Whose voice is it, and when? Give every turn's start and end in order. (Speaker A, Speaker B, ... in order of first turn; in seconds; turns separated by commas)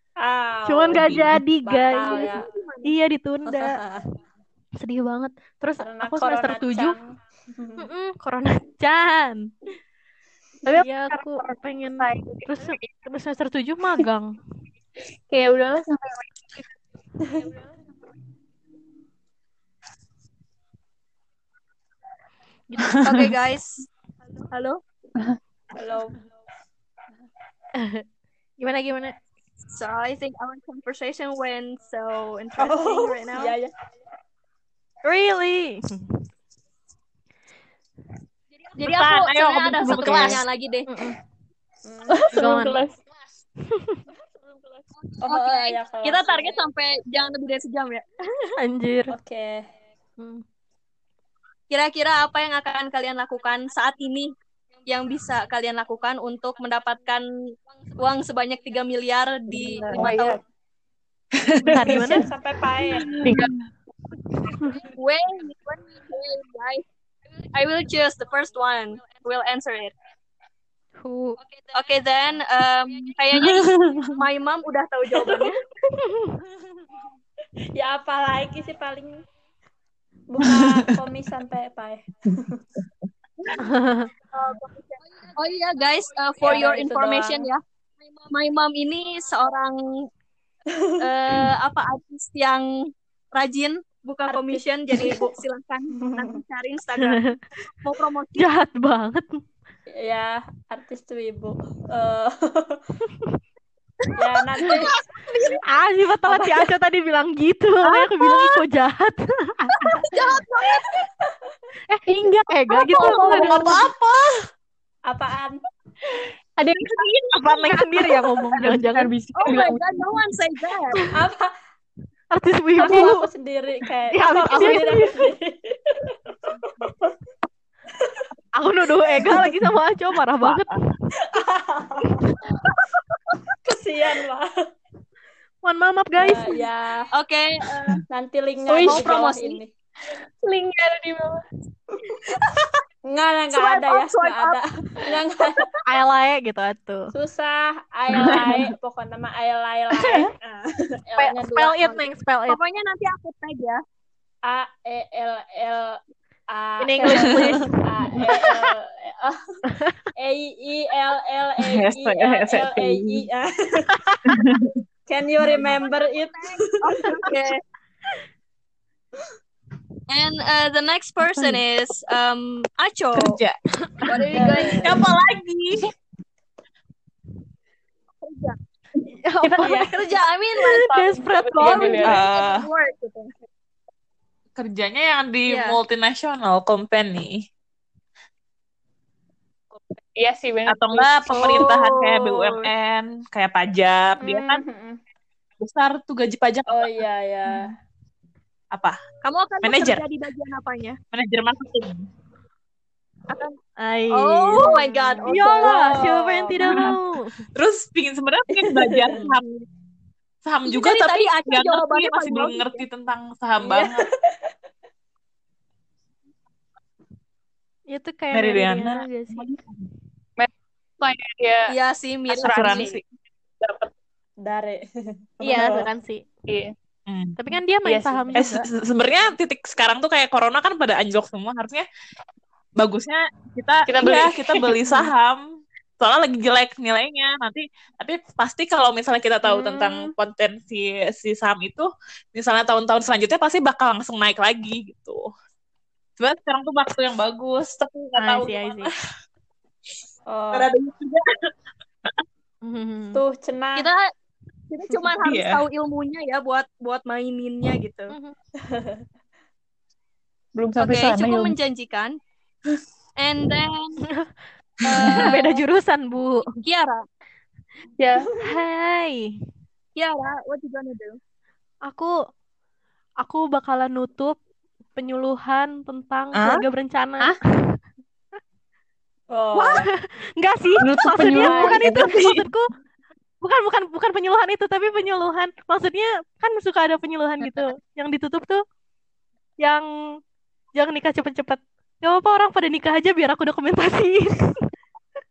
Speaker A: 0.2-2.5, Speaker B: 0.7-3.8, Speaker C: 0.9-1.4, Speaker D: 2.1-2.9, Speaker A: 3.5-4.0, Speaker B: 4.8-7.0, Speaker A: 5.8-7.9, Speaker B: 7.8-9.5, Speaker E: 10.6-12.8, Speaker B: 10.8-14.4, Speaker E: 15.3-16.7, Speaker B: 22.7-23.0, Speaker D: 23.0-23.9, Speaker D: 24.5-24.8, Speaker A: 25.7-26.2, Speaker B: 27.8-28.0, Speaker B: 28.6-29.1, Speaker D: 29.7-33.5, Speaker A: 32.6-33.7, Speaker B: 35.0-36.2, Speaker D: 38.7-40.9, Speaker C: 38.8-40.4, Speaker B: 39.9-40.3, Speaker B: 40.9-41.2, Speaker A: 41.8-42.4, Speaker E: 42.1-43.0, Speaker B: 42.3-42.8, Speaker B: 43.7-44.0, Speaker D: 45.2-48.1, Speaker A: 45.2-46.6, Speaker B: 48.6-49.1, Speaker A: 49.1-49.6, Speaker D: 51.7-54.3, Speaker D: 54.9-57.2, Speaker D: 57.9-60.4, Speaker E: 59.5-60.4, Speaker C: 61.4-62.0, Speaker B: 61.7-62.3, Speaker A: 61.7-63.1, Speaker E: 61.8-62.1, Speaker C: 62.8-63.6, Speaker E: 63.2-63.5, Speaker D: 64.9-66.8, Speaker D: 67.5-69.9, Speaker B: 71.0-71.4, Speaker D: 71.7-75.6, Speaker C: 73.3-74.1, Speaker A: 75.2-75.5, Speaker B: 76.0-76.4, Speaker A: 77.7-79.2, Speaker A: 80.3-82.6, Speaker C: 80.4-80.9, Speaker B: 83.6-84.1, Speaker D: 84.3-87.6, Speaker A: 86.4-87.5, Speaker D: 88.3-89.8, Speaker D: 91.0-92.7, Speaker D: 93.3-97.2, Speaker A: 94.3-95.4, Speaker A: 96.0-96.4, Speaker B: 97.0-97.4, Speaker D: 97.8-98.5, Speaker B: 98.4-99.4, Speaker A: 99.9-102.8, Speaker C: 104.0-105.6, Speaker A: 104.2-105.0, Speaker B: 105.7-110.0, Speaker A: 106.3-106.7, Speaker D: 109.9-110.9, Speaker C: 110.2-110.4, Speaker B: 111.9-113.8, Speaker E: 112.0-113.9, Speaker C: 112.9-114.4, Speaker A: 115.1-115.6, Speaker E: 116.6-117.0, Speaker C: 116.8-118.6, Speaker B: 117.4-119.1, Speaker E: 118.6-120.2, Speaker D: 119.3-121.0, Speaker A: 121.1-121.5, Speaker B: 122.3-123.3, Speaker A: 122.8-126.2, Speaker B: 124.1-125.3, Speaker A: 126.8-127.1, Speaker A: 128.0-128.3, Speaker B: 128.6-130.8, Speaker C: 129.3-129.5, Speaker C: 130.4-130.7, Speaker A: 131.2-132.4, Speaker A: 133.7-134.5, Speaker B: 135.6-136.7, Speaker A: 136.2-137.1, Speaker D: 137.1-138.0, Speaker A: 138.1-139.7, Speaker E: 138.7-139.3, Speaker D: 138.8-139.6, Speaker E: 140.4-141.4, Speaker A: 142.3-142.6, Speaker A: 143.1-145.8, Speaker D: 143.5-144.6, Speaker B: 145.8-147.1, Speaker A: 147.1-151.9, Speaker C: 148.1-148.7, Speaker B: 151.2-152.6, Speaker D: 151.8-153.8, Speaker A: 154.4-159.4, Speaker B: 156.8-158.4, Speaker C: 157.1-157.6, Speaker A: 160.2-164.0, Speaker C: 161.6-163.3, Speaker C: 164.3-164.8, Speaker A: 165.1-167.2, Speaker D: 165.8-167.6, Speaker D: 170.1-173.4, Speaker C: 173.1-175.9, Speaker D: 174.1-175.0, Speaker A: 174.3-175.0, Speaker D: 178.2-178.6, Speaker B: 179.2-182.1, Speaker E: 179.4-180.0, Speaker A: 179.6-179.9, Speaker D: 179.7-180.9, Speaker E: 180.8-182.2, Speaker D: 181.6-183.3, Speaker C: 182.0-182.7, Speaker C: 184.5-187.4, Speaker D: 185.5-185.8, Speaker E: 190.1-191.1, Speaker C: 190.7-194.6, Speaker D: 191.3-192.6, Speaker A: 194.2-195.0, Speaker C: 195.6-197.7, Speaker A: 196.7-197.7, Speaker C: 198.7-199.0, Speaker D: 199.2-201.0, Speaker C: 199.6-200.0, Speaker C: 201.1-202.1, Speaker D: 203.3-203.5, Speaker B: 203.8-207.3, Speaker D: 204.1-205.9, Speaker A: 204.6-206.9, Speaker C: 206.7-206.9, Speaker C: 207.5-209.7, Speaker A: 208.7-209.3, Speaker C: 210.4-214.1, Speaker D: 210.7-212.8, Speaker A: 213.6-214.1, Speaker B: 217.9-219.4, Speaker C: 218.3-219.9, Speaker E: 221.0-221.7, Speaker D: 221.7-223.0, Speaker E: 222.3-223.0, Speaker C: 222.4-223.0, Speaker E: 223.6-223.9, Speaker A: 224.4-225.9, Speaker B: 225.4-226.2, Speaker E: 226.5-226.7, Speaker C: 227.1-227.4, Speaker B: 227.4-228.7, Speaker E: 227.8-228.4, Speaker C: 228.3-231.8, Speaker C: 232.8-235.4, Speaker E: 233.9-234.8, Speaker C: 236.0-245.3, Speaker A: 239.4-240.1, Speaker C: 246.2-249.0, Speaker B: 248.2-248.9, Speaker A: 250.3-250.7, Speaker C: 250.5-251.2, Speaker B: 252.6-253.2, Speaker A: 253.1-253.9, Speaker D: 253.8-254.1, Speaker D: 254.7-258.1, Speaker C: 255.2-255.6, Speaker A: 258.7-259.0, Speaker E: 260.5-261.6, Speaker D: 260.8-262.1, Speaker D: 263.2-264.0, Speaker D: 264.8-265.6, Speaker B: 264.9-266.5, Speaker D: 266.6-267.0, Speaker E: 268.0-268.3, Speaker B: 268.4-269.4, Speaker D: 269.9-271.2, Speaker B: 271.9-272.1, Speaker B: 273.2-274.4, Speaker B: 274.9-277.8, Speaker C: 276.3-276.6, Speaker A: 279.3-279.9, Speaker B: 279.5-282.7, Speaker E: 280.8-281.8, Speaker A: 281.3-281.8, Speaker C: 281.8-282.5, Speaker B: 283.4-288.6, Speaker E: 287.4-287.7, Speaker B: 289.6-290.2, Speaker B: 290.7-294.6